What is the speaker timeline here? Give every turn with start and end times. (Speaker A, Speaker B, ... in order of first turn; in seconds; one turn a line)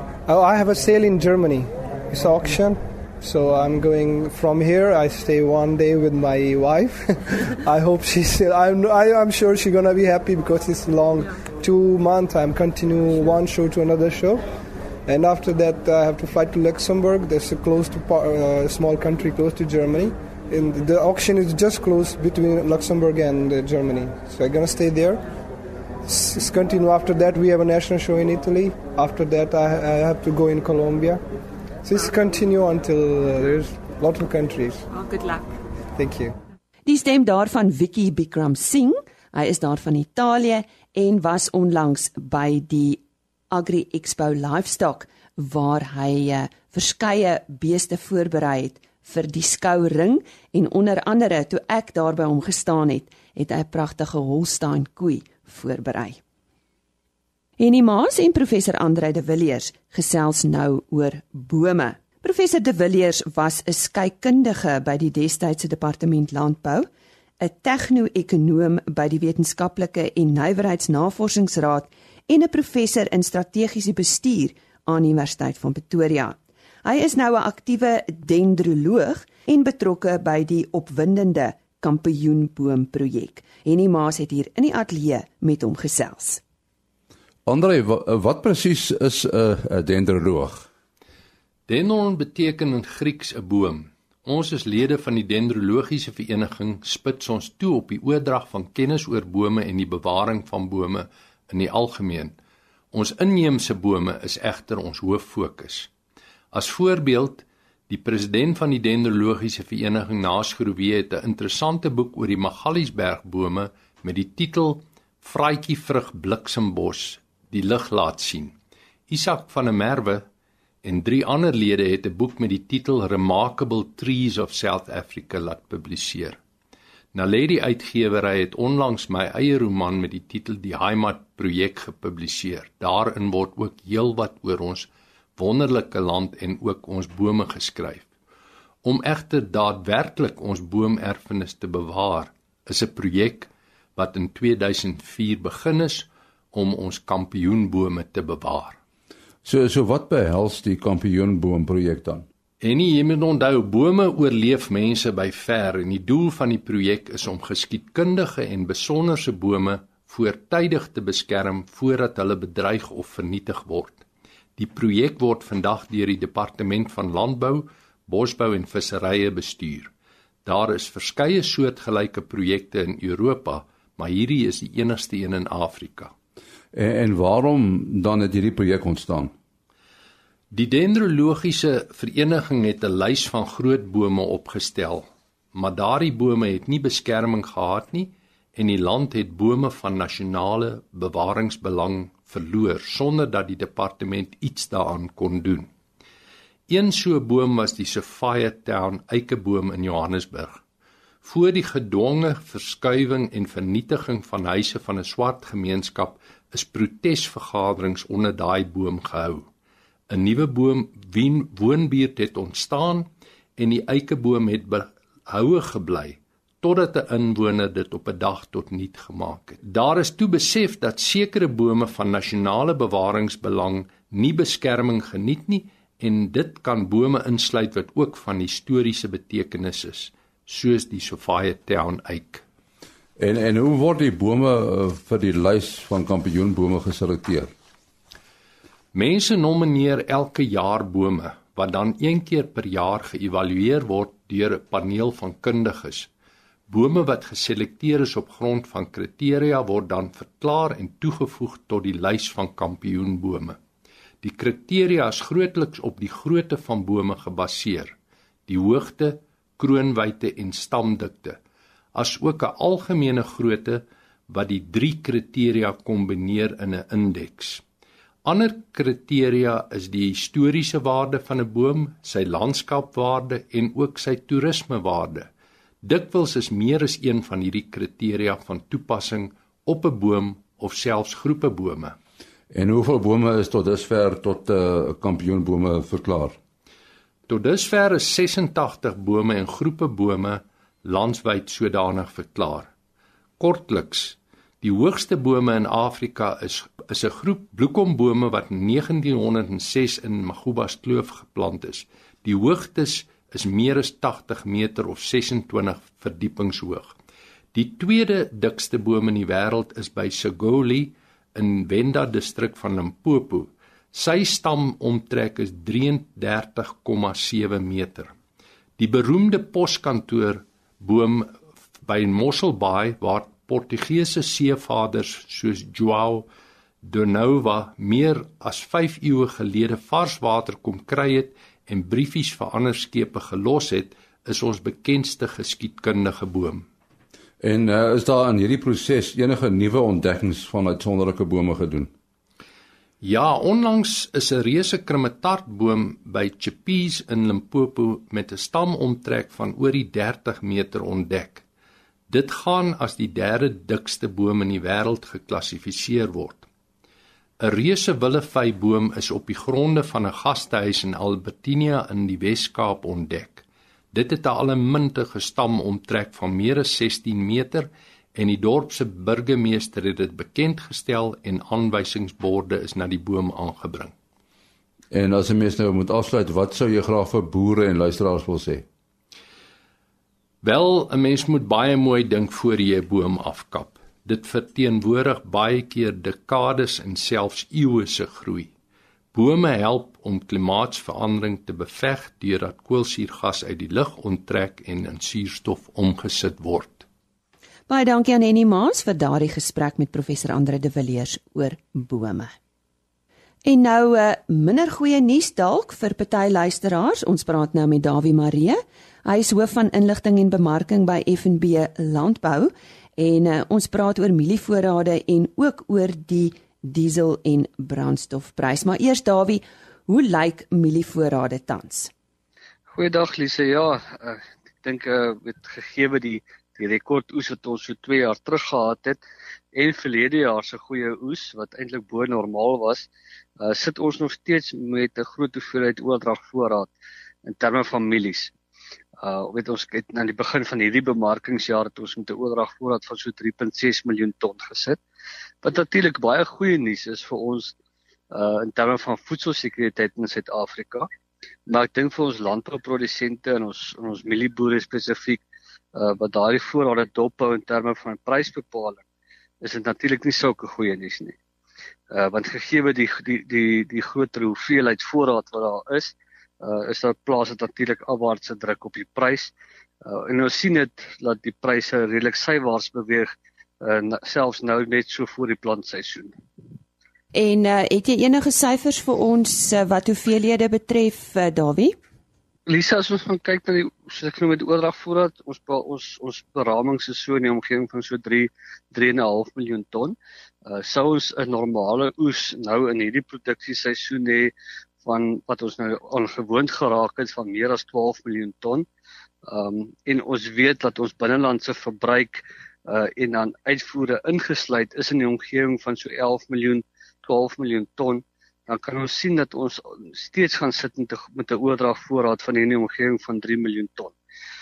Speaker A: 0.3-14.4
Speaker A: 15.1-25.2
Speaker A: 26.1-31.2
Speaker A: 31.8-34.9
Speaker A: 36.0-36.4
Speaker B: 36.9-56.2
Speaker B: 57.6-66.9
Speaker B: 67.4-86.4
Speaker C: 87.5-90.7
Speaker D: 91.7-102.3
Speaker D: 102.9-105.9
Speaker D: 106.5-118.5
Speaker D: 119.1-120.2
Speaker D: 120.8-126.4
Speaker D: 127.1-138.1
Speaker D: 138.8-148.8
Speaker C: 149.4-152.3
Speaker D: 152.6-164.0
Speaker D: 164.6-169.9
Speaker D: 170.4-176.1
Speaker C: 176.7-179.3
Speaker D: 180.5-195.7
Speaker D: 196.7-200.6
Speaker D: 201.2-209.4
Speaker D: 210.1-232.4
Speaker C: 233.2-237.5
Speaker D: 238.9-246.1
Speaker D: 246.7-253.6
Speaker D: 254.2-257.9
Speaker D: 258.5-261.4
Speaker D: 261.9-267.6
Speaker D: 268.2-275.3
Speaker D: 275.8-281.9
Speaker C: 282.5-286.4
Speaker D: 287.3-292.7
Speaker D: 293.4-306.9
Speaker D: 307.5-318.1
Speaker D: 318.8-326.3
Speaker D: 326.8-336.6
Speaker C: 337.4-341.9
Speaker D: 343.0-351.4
Speaker D: 352.1-356.4
Speaker D: 357.4-373.9
Speaker C: 374.9-378.6
Speaker D: 380.4-388.5
Speaker D: 389.1-396.8
Speaker B: 397.7-402.3
Speaker B: 403.4-421.9
Speaker E: 422.7-429.0
Speaker E: 429.5-432.9
Speaker E: 433.4-436.7
Speaker E: 437.2-438.3
Speaker E: 439.0-444.8
Speaker E: 445.4-447.5
Speaker E: 448.1-450.9
Speaker E: 451.5-455.2
Speaker E: 455.7-458.8
Speaker E: 459.4-461.1
Speaker E: 461.9-469.3
Speaker E: 469.8-476.1
Speaker B: 477.1-481.8
Speaker E: 482.5-498.6
Speaker E: 499.2-513.9